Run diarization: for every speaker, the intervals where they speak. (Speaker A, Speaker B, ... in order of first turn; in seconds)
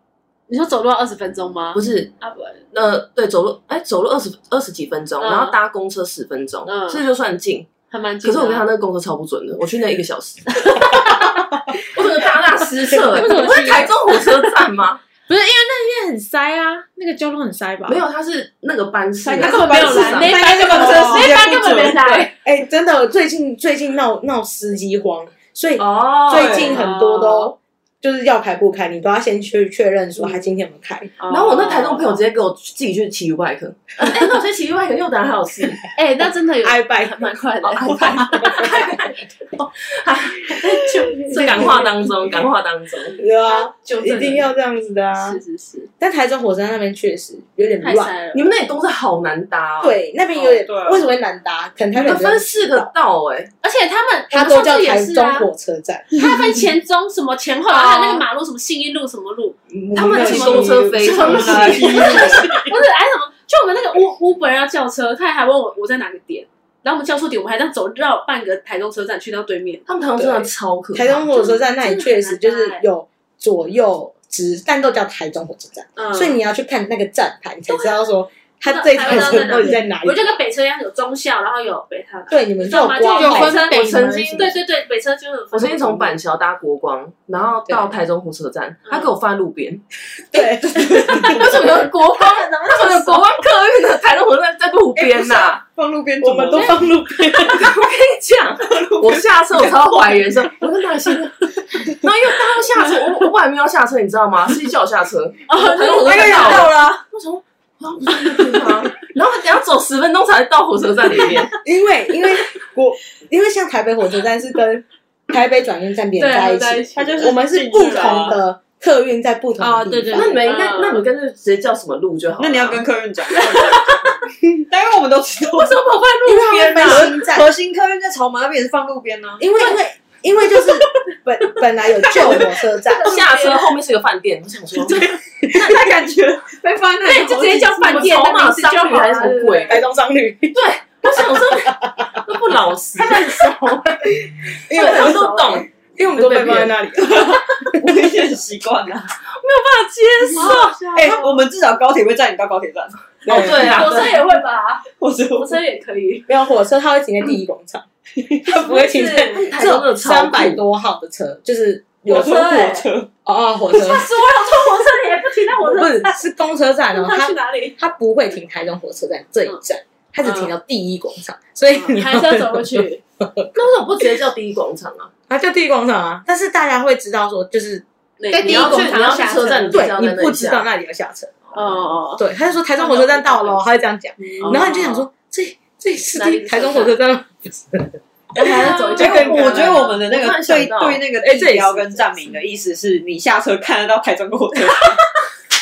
Speaker A: 0.5-2.6, 5.2-5.6, 6.7-7.0, 7.9-8.7, 10.5-12.2, 12.8-14.5, 19.4-22.3, 26.4-27.5, 31.2-32.2, 36.0-38.8, 40.5-42.1, 43.4-44.5, 45.2-45.9, 47.8-48.5, 53.6-55.5, 56.1-59.6, 60.2-60.5, 61.0-69.9, 71.3-72.8, 76.0-76.4, 77.7-78.1, 78.6-86.1, 90.7-93.4, 96.5-96.8, 105.5-106.7, 116.2-117.3, 117.8-118.2, 120.4-121.1, 123.4-124.1, 125.5-127.1, 132.1-133.7, 134.9-135.2, 137.0-139.8, 144.7-145.7, 150.3-151.4, 153.6-156.3, 158.6-159.3, 162.1-162.9, 163.7-166.2, 166.9-167.8, 170.2-170.5, 171.7-173.0, 178.2-179.9, 181.5-183.6, 184.2-185.1, 186.2-187.0, 188.4-190.0
Speaker B: 1.7-2.1, 2.7-7.7, 8.2-11.0, 11.8-15.0, 17.9-21.2, 25.8-26.8, 31.3-35.8, 37.6-39.2, 39.8-40.7, 41.3-43.2, 48.3-50.0, 52.0-53.5, 57.7-58.2, 59.9-62.4, 69.9-71.3, 83.4-84.6, 85.5-89.8, 91.2-95.6, 97.5-111.5, 120.1-122.9, 133.0-135.0, 137.8-139.8, 140.5-143.8, 144.7-146.8, 149.4-150.8, 153.3-154.2, 158.7-160.6, 173.5-175.1, 178.4-180.7, 181.5-181.8, 188.4-191.0
Speaker C: 13.1-13.9, 15.3-18.0, 19.3-21.2, 83.1-84.5, 119.6-120.4, 178.5-179.0
Speaker D: 19.4-22.3, 26.3-26.8, 50.3-51.0, 60.2-62.5, 90.7-91.5, 95.0-96.9, 98.7-100.2, 106.0-107.0, 117.0-118.4, 122.4-124.0, 124.7-125.8, 126.8-129.5, 132.1-132.4, 135.5-137.9, 144.7-145.4, 147.0-149.1, 150.9-153.9, 154.9-155.6, 162.1-163.1, 189.0-195.0
Speaker E: 22.4-31.1, 36.6-37.3, 38.2-38.7, 41.4-41.7, 43.2-45.4, 46.0-48.1, 49.8-52.9, 54.3-56.1, 59.7-62.7, 70.2-80.3, 82.3-83.7, 90.3-91.5, 96.2-97.7, 111.6-120.4, 126.2-127.5, 129.4-133.2, 135.3-135.8, 139.7-142.3, 143.0-144.3, 145.9-148.0, 153.3-153.9, 156.3-157.8, 158.4-164.2, 165.6-173.5, 175.3-177.8, 179.7-181.4, 182.2-189.8, 191.2-192.2